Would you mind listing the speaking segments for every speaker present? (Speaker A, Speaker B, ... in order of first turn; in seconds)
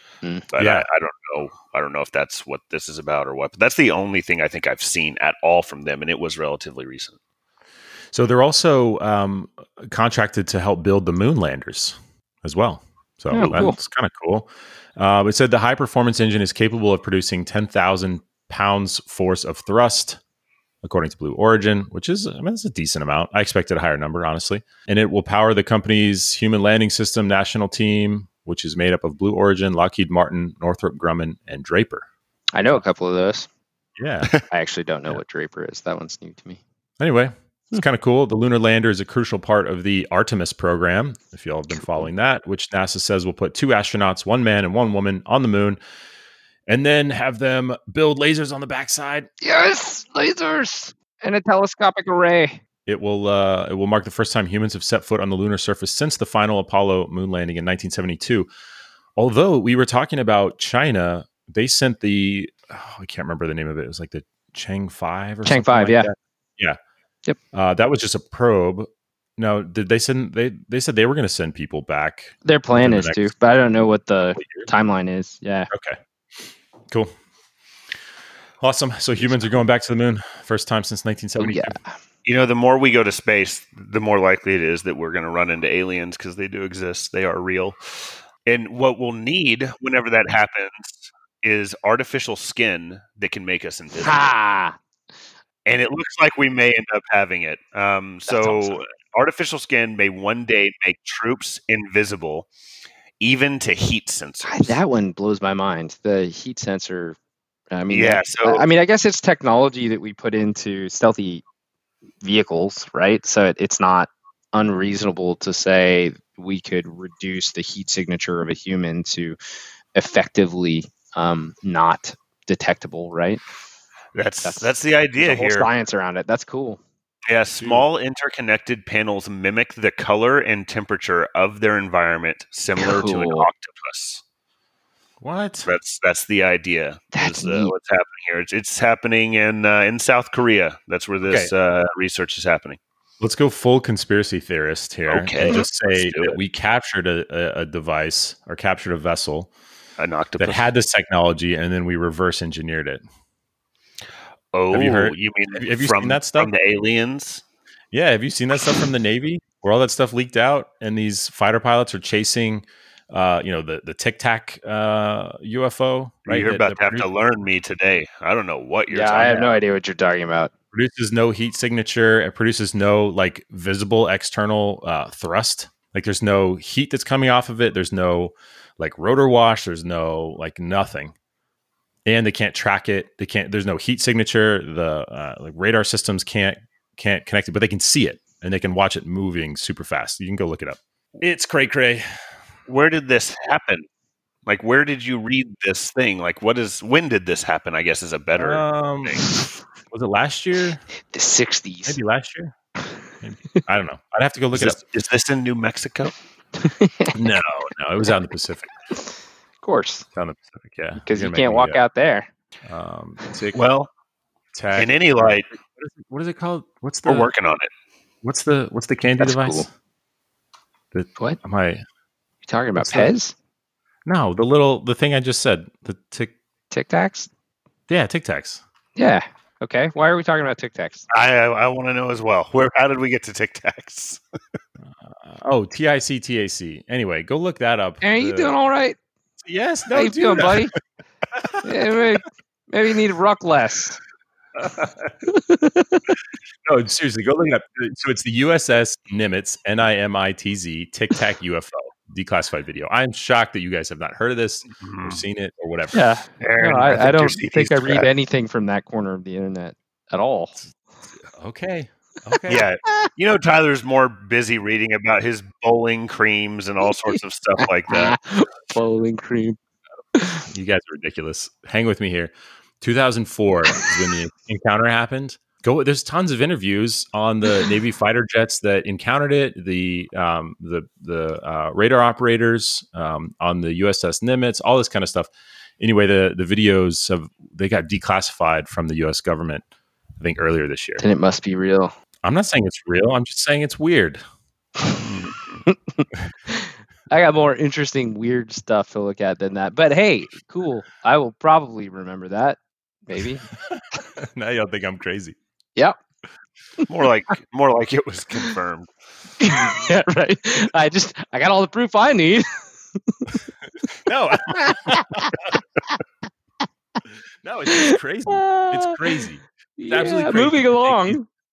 Speaker A: 0.5-7.2, 82.2-94.3, 95.7-102.5, 103.2-104.8, 107.9-108.6, 124.1-125.7, 127.3-134.2, 135.7-142.8, 145.1-146.4, 150.0-150.7, 154.5-157.4, 166.3-169.6, 192.7-193.9, 194.4-199.3, 204.5-206.1, 213.5-213.9, 214.8-215.5, 217.1-217.7, 231.1-234.2, 254.8-255.2, 256.4-258.1, 262.5-268.2, 295.0-295.6, 306.9-308.9
Speaker B: 0.6-0.9, 8.1-20.2, 20.8-32.1, 34.0-34.3, 37.0-45.8, 46.7-49.3, 52.9-58.5, 59.1-66.8, 67.5-73.3, 74.4-74.7, 75.7-76.0, 78.6-81.8, 135.2-135.7, 143.2-149.5, 150.4-153.0, 154.7-156.5, 157.9-167.1, 170.7-181.1, 182.1-192.1, 198.4-199.2, 199.9-200.8, 201.9-202.5, 203.2-204.8, 207.1-208.7, 210.2-211.8, 212.6-213.6, 214.5-217.3, 218.2-219.7, 220.9-221.8, 222.8-223.1, 224.1-226.3, 227.9-228.6, 235.1-238.6, 239.4-240.7, 241.4-242.0, 244.6-245.1, 246.7-256.1, 261.3-262.7, 270.5-289.6, 290.2-291.0, 292.2-294.2, 303.6-305.4, 314.1-315.5, 317.4-321.2
Speaker C: 13.3-13.8, 32.5-33.5, 34.5-36.6, 41.7-42.1, 49.4-52.6, 65.4-66.1, 72.4-75.7, 81.4-81.9, 94.0-94.8, 98.3-98.8, 104.4-107.2, 107.7-111.4, 112.2-119.4, 119.9-123.4, 124.4-126.8, 132.8-133.5, 137.1-137.7, 168.9-170.5, 201.1-202.0, 206.6-207.2, 209.6-210.1, 211.0-212.3, 219.2-219.7, 222.4-223.3, 226.7-227.3, 228.9-231.1, 238.0-239.0, 239.9-240.7, 241.6-244.0, 245.3-246.1, 255.9-260.6, 267.9-269.6, 270.1-270.4, 291.0-291.9, 295.7-303.5, 309.4-313.3, 314.5-315.6, 317.7-319.2, 319.8-321.3